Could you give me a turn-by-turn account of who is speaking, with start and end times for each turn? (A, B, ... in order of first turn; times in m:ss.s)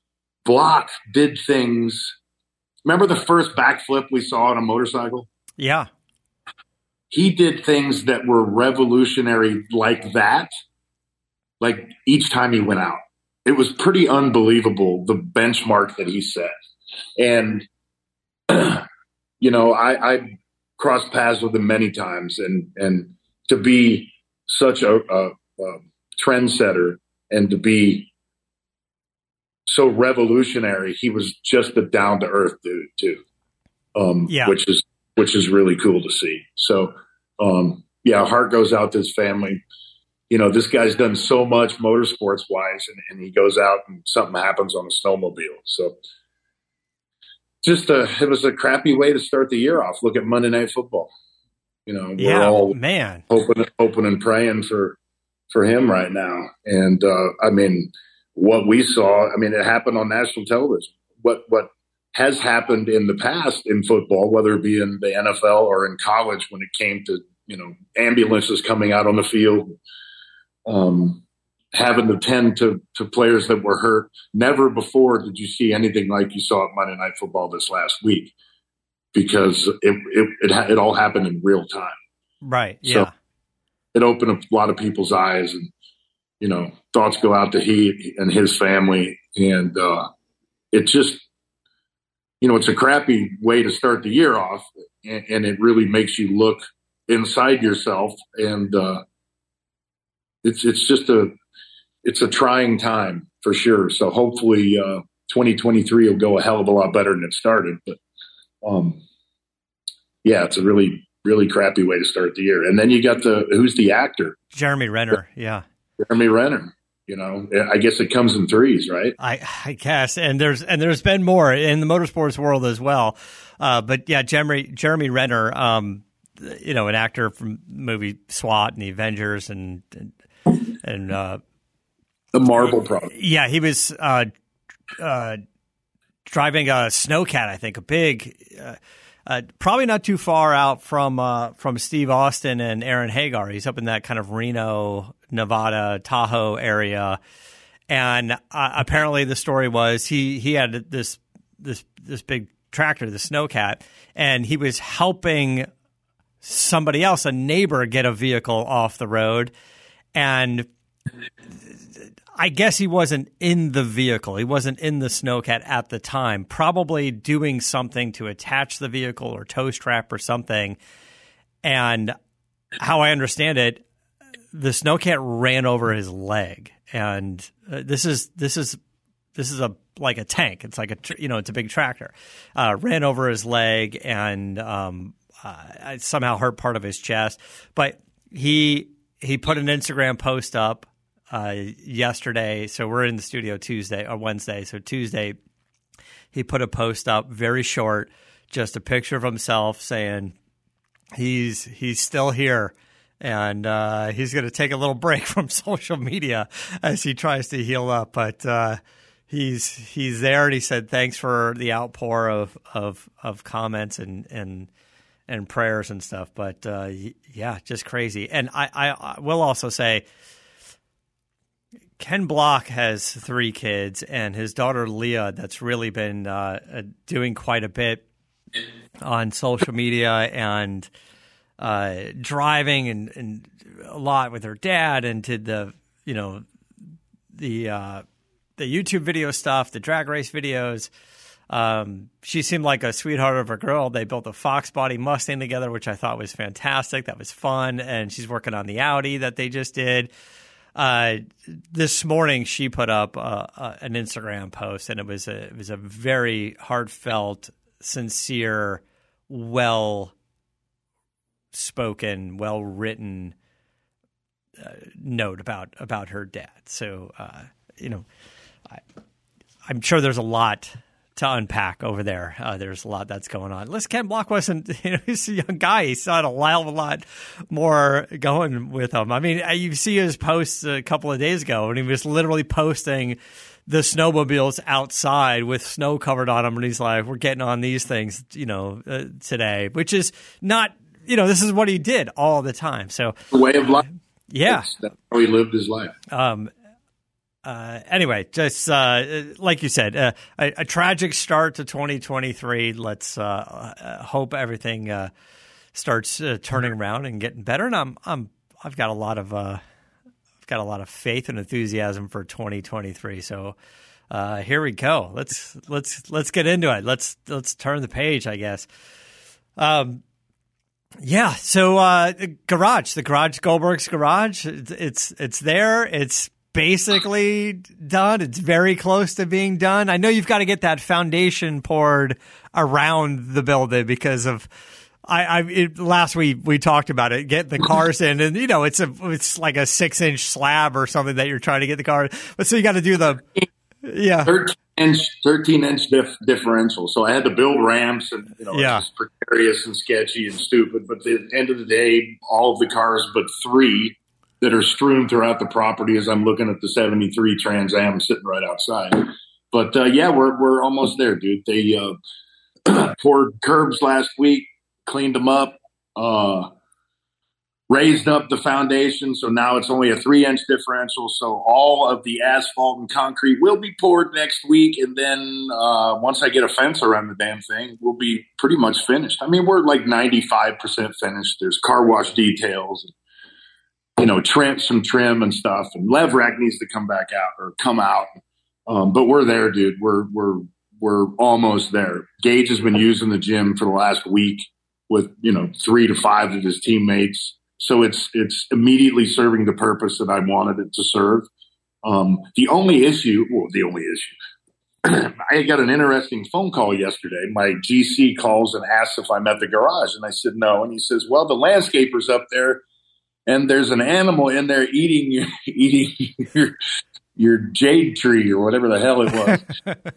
0:00.4-0:02.1 A
0:02.8-0:05.3 A
0:05.6-0:05.9 B
0:07.1-0:10.5 A
0:11.6-0:16.5 A
0:17.2-0:17.6 A
0:18.5-0:18.8 A
0:19.4-0:20.2 A
0:20.8-0:28.1 A
0:29.7-0:33.2 A
0:33.9-0:39.6 A
0:34.3-0:34.5 B
0:40.3-0:45.9 A
0:47.6-0:51.1 A
0:51.9-0:52.8 A
0:52.2-0:53.2 B
0:53.3-0:55.0 A
0:55.5-1:09.7 A
1:10.6-1:11.2 A
1:11.7-1:18.3 A
1:19.1-1:22.0 A
1:22.4-1:23.1 B
1:23.9-1:25.7 A
1:26.4-1:30.1 A
1:30.7-1:31.2 A
1:32.4-1:39.0 A
1:40.4-1:41.3 A
1:42.0-1:48.0 A
1:48.6-1:49.0 A
1:50.2-1:54.4 A
1:54.5-1:55.6 B
1:56.0-1:59.2 A
1:59.2-2:11.4 B
2:12.3-2:13.1 A
2:12.6-2:14.3 B
2:15.0-2:15.4 B
2:16.3-2:27.2 B
2:27.9-2:35.7 B
2:36.4-2:39.5 B
2:40.1-2:40.7 B
2:42.4-2:50.8 B
2:51.6-2:52.1 B
2:52.8-2:53.8 B
2:54.5-2:58.8 B
2:59.4-3:15.4 B
3:16.3-3:20.3 B
3:21.2-3:28.8 B
3:29.3-3:34.7 B
3:35.3-3:40.0 B
3:42.0-3:48.0 B
3:49.0-3:50.9 B
3:51.6-3:56.4 B
3:57.3-3:58.0 B
3:58.6-4:00.9 B
4:01.5-4:10.1 B
4:10.8-4:20.1 B
4:21.5-4:23.3 B
4:24.6-4:28.0 B
4:29.7-4:53.2 B
4:53.3-4:53.8 A
4:54.3-4:54.7 B
4:54.5-4:55.9 A
4:56.1-4:56.5 B
4:57.4-5:05.1 B
5:05.7-5:09.6 B
5:10.4-5:13.6 B
5:14.1-5:18.7 B
5:19.6-5:20.0 B
5:21.0-5:34.5 B
5:35.0-5:43.2 B
5:43.8-5:44.3 B
5:44.2-6:02.0 A
5:48.5-5:48.8 B
6:02.7-6:06.5 A
6:07.7-6:22.9 A
6:24.0-6:28.1 A
6:28.7-6:41.3 A
6:41.8-6:44.1 A
6:44.8-6:52.6 A
6:53.2-6:56.5 A
6:57.2-6:59.4 A